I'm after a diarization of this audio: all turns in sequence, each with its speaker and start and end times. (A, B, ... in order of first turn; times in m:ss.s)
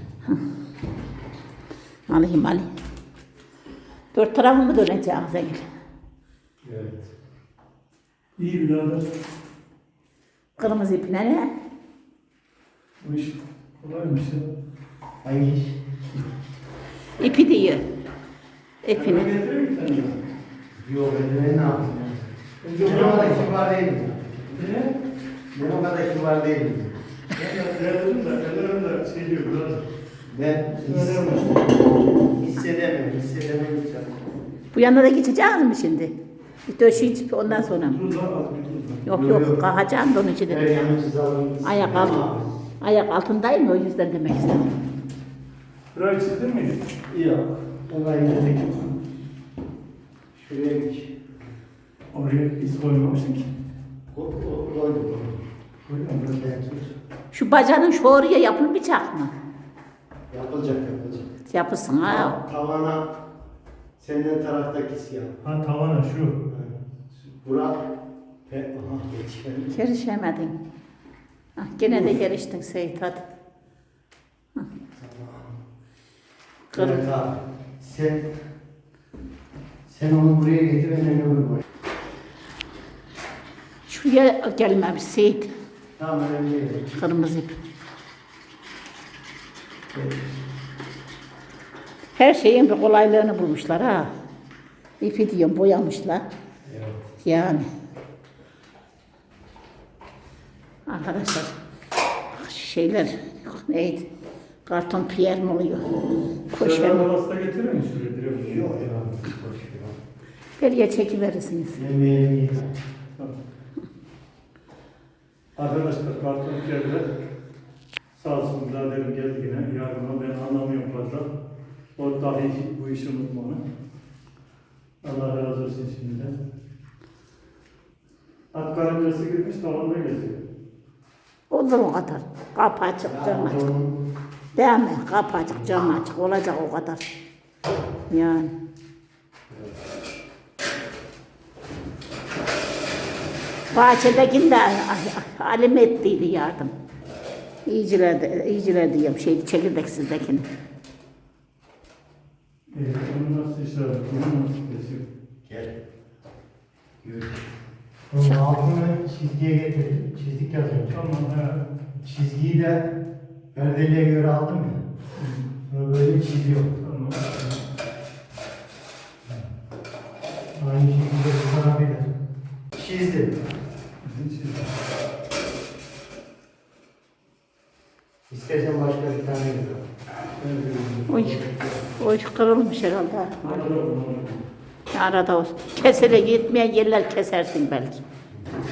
0:02.1-0:02.7 A
0:04.1-0:05.6 A
0:06.6-0:07.1 B
0:08.4-0:09.1 C
0:10.6-0:11.5 A
0:13.0-0:14.5 C
0:15.2-0:15.8 B
0:17.2-0:17.8 A
0:18.8-0:19.3 A
0:18.9-0:20.2 C
0:20.8-0:24.6 B
0:22.6-0:23.5 C
0:24.6-0:24.9 C
0:25.5-0:27.0 B
0:27.4-0:29.9 C
0:30.3-0:34.2 B
0:30.7-0:31.7 C
0:34.7-0:36.1 A
0:36.7-0:38.0 A
0:37.5-0:39.1 C
0:39.1-0:39.7 B
0:39.1-0:40.8 A
0:40.5-0:42.6 B
0:41.6-0:42.3 A
0:42.8-0:44.8 A
0:45.9-0:46.9 C
0:47.1-0:48.8 B
0:50.4-0:51.2 B
0:52.1-0:53.5 C
0:54.1-0:55.4 B
0:55.9-0:56.4 C
0:56.4-0:56.9 B
0:57.3-0:59.4 A
1:00.3-1:01.3 B
1:01.5-1:02.4 A
1:02.0-1:03.1 B
1:04.0-1:05.4 B
1:05.4-1:06.4 C
1:06.5-1:07.9 B
1:08.5-1:09.8 B
1:09.7-1:10.6 A
1:11.6-1:13.3 A
1:11.9-1:12.2 B
1:15.0-1:15.5 B
1:16.7-1:17.0 A
1:16.7-1:18.4 B
1:19.9-1:21.6 B
1:23.9-1:25.5 A
1:26.0-1:26.9 B
1:26.9-1:27.5 A
1:29.9-1:30.3 B
1:32.2-1:34.1 A
1:35.0-1:36.3 A
1:36.6-1:37.0 B
1:37.2-1:37.7 A
1:40.9-1:41.6 A
1:42.3-1:44.1 A
1:44.7-1:47.1 A
1:46.5-1:48.7 C
1:48.4-1:50.0 B
1:50.6-1:51.8 A
1:51.8-1:52.8 B
1:55.6-1:57.1 C
1:58.2-2:01.3 C
2:02.0-2:03.6 C
2:05.0-2:06.4 C
2:08.5-2:10.4 C
2:11.5-2:13.6 A
2:13.0-2:14.0 B
2:14.5-2:17.0 A
2:18.1-2:18.5 A
2:19.5-2:19.8 B
2:23.7-2:26.7 A
2:27.6-2:30.5 A
2:32.7-2:35.0 C
2:35.5-2:35.8 B
2:37.0-2:37.5 B
2:38.1-2:41.1 B
2:40.9-2:41.6 C
2:42.0-2:42.9 B
2:43.5-2:44.8 B
2:45.2-2:45.5 C
2:45.7-2:46.7 B
2:46.8-2:47.6 C
2:50.6-2:52.1 B
2:52.7-2:53.4 B
2:54.0-2:54.7 C
2:58.3-2:59.9 B
3:00.4-3:01.7 C
3:01.1-3:01.4 A
3:02.0-3:03.7 A
3:03.4-3:04.5 C
3:04.9-3:08.0 A